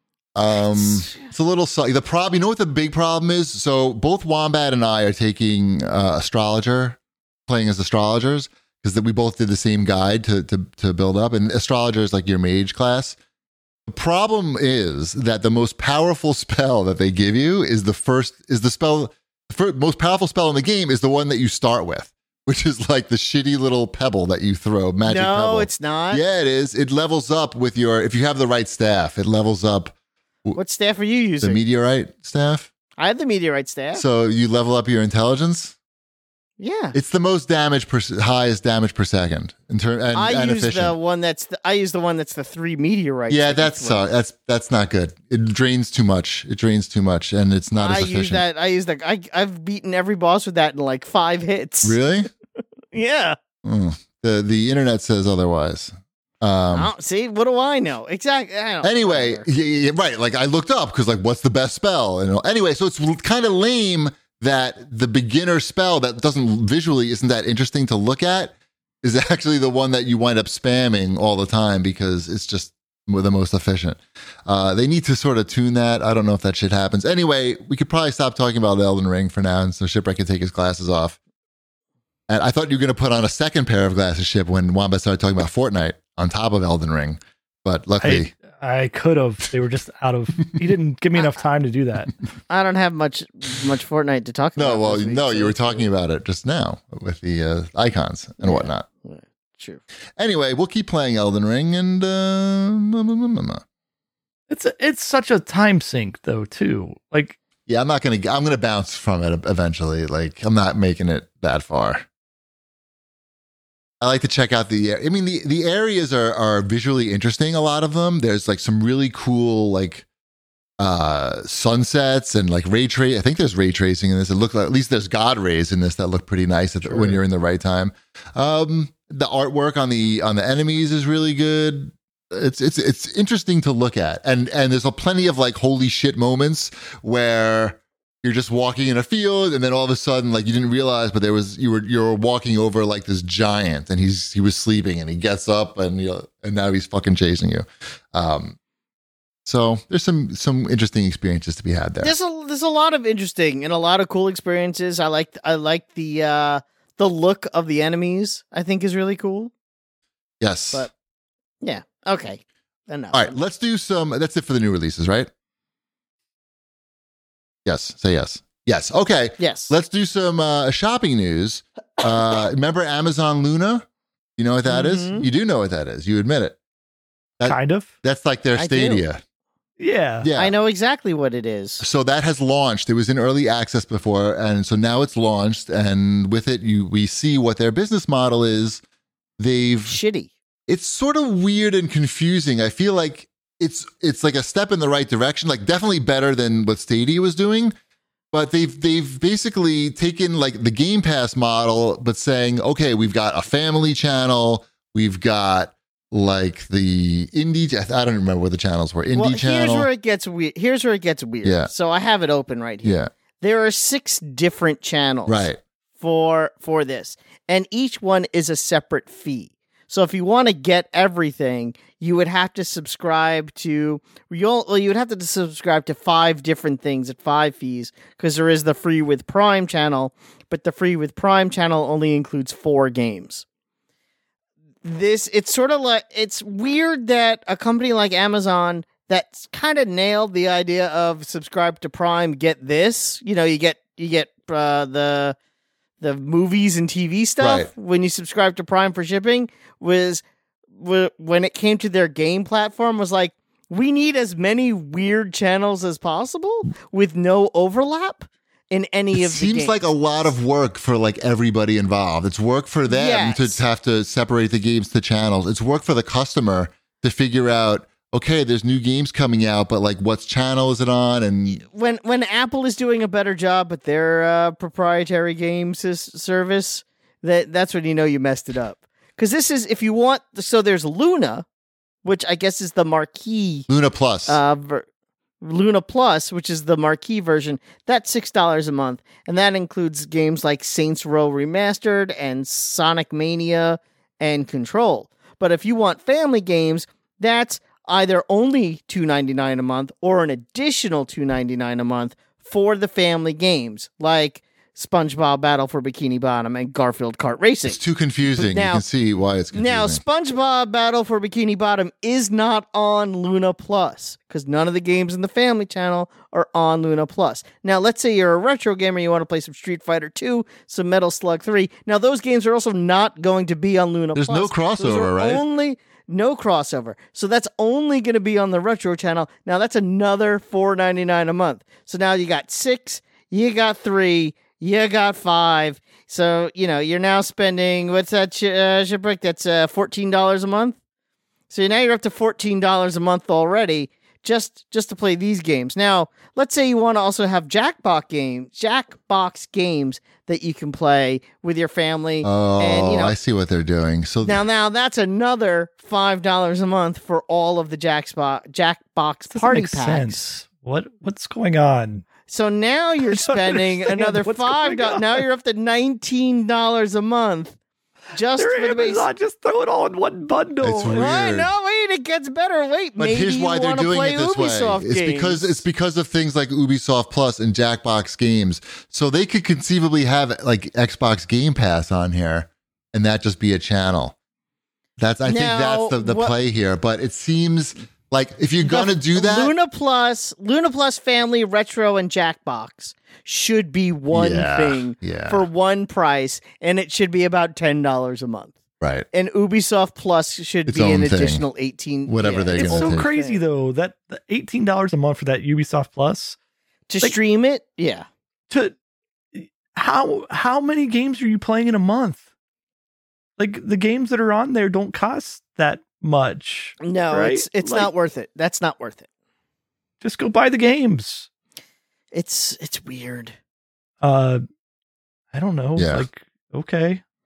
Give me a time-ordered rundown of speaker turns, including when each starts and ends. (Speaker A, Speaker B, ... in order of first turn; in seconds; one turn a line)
Speaker A: 0.3-13.2
Speaker B: 0.8-1.3
Speaker A: 13.9-29.9
Speaker B: 25.1-26.2
Speaker B: 30.5-31.6
Speaker A: 31.4-32.7
Speaker B: 33.0-34.0
Speaker A: 33.9-35.8
Speaker B: 36.6-37.0
Speaker A: 36.9-40.9
Speaker B: 40.1-44.0
Speaker A: 43.3-48.4
Speaker B: 47.8-52.0
Speaker A: 51.8-52.3
Speaker B: 52.9-53.4
Speaker A: 53.6-56.9
Speaker B: 56.7-59.5
Speaker A: 58.8-81.2
Speaker A: 82.3-88.3
Speaker C: 88.0-92.1
Speaker B: 92.5-95.9
Speaker A: 94.6-98.9
Speaker B: 98.4-99.8
Speaker A: 100.2-103.6
Speaker C: 104.5-107.4
Speaker A: 107.7-112.0
Speaker A: 114.0-120.0
Speaker A: 120.8-148.6
Speaker C: 126.8-127.2
Speaker A: 149.4-152.1
Speaker B: 152.0-159.5
Speaker A: 160.4-160.9
Speaker B: 161.6-163.3
Speaker A: 163.1-165.3
Speaker A: 167.6-173.8
Speaker B: 169.4-169.7
Speaker A: 174.4-176.6
Speaker B: 174.7-175.3
Speaker A: 177.4-179.2
Speaker C: 177.4-177.9
Speaker B: 178.6-179.0
Speaker C: 179.8-180.3
Speaker A: 180.2-180.5
Speaker B: 180.3-181.8
Speaker A: 181.8-188.8
Speaker A: 189.4-190.0
Speaker B: 189.9-190.3
Speaker A: 190.7-197.7
Speaker A: 198.3-209.9
Speaker B: 209.1-215.5
Speaker A: 211.4-211.7
Speaker A: 212.8-213.1
Speaker A: 215.3-215.6
Speaker B: 216.0-233.4
Speaker B: 234.8-245.3
Speaker B: 246.0-250.2
Speaker A: 247.4-247.7
Speaker B: 250.8-259.8
Speaker A: 259.1-271.6
Speaker B: 262.9-263.6
Speaker B: 271.5-281.4
Speaker B: 282.0-283.7
Speaker A: 283.7-284.4
Speaker B: 284.3-284.9
Speaker B: 285.4-307.8
Speaker A: 307.6-310.0
Speaker B: 308.4-308.8
Speaker B: 309.5-340.8
Speaker A: 324.1-325.4
Speaker B: 341.5-353.1
Speaker A: 352.2-354.4
Speaker B: 354.2-360.3
Speaker C: 359.3-362.0
Speaker B: 362.3-367.6
Speaker C: 363.1-365.2
Speaker B: 368.1-369.1
Speaker C: 368.4-371.1
Speaker A: 370.6-371.5
Speaker B: 370.9-375.6
Speaker A: 373.0-384.1
Speaker A: 385.0-389.5
Speaker B: 385.2-386.3
Speaker B: 388.6-398.6
Speaker A: 394.1-395.4
Speaker A: 398.8-399.1
Speaker B: 399.1-403.4
Speaker A: 400.7-401.4
Speaker A: 402.1-403.1
Speaker C: 402.6-406.4
Speaker B: 406.9-408.1
Speaker C: 409.3-412.2
Speaker C: 413.4-417.9
Speaker B: 416.8-419.0
Speaker C: 420.0-421.3
Speaker B: 422.1-423.3
Speaker C: 424.0-424.4
Speaker C: 425.3-427.0
Speaker A: 425.8-426.1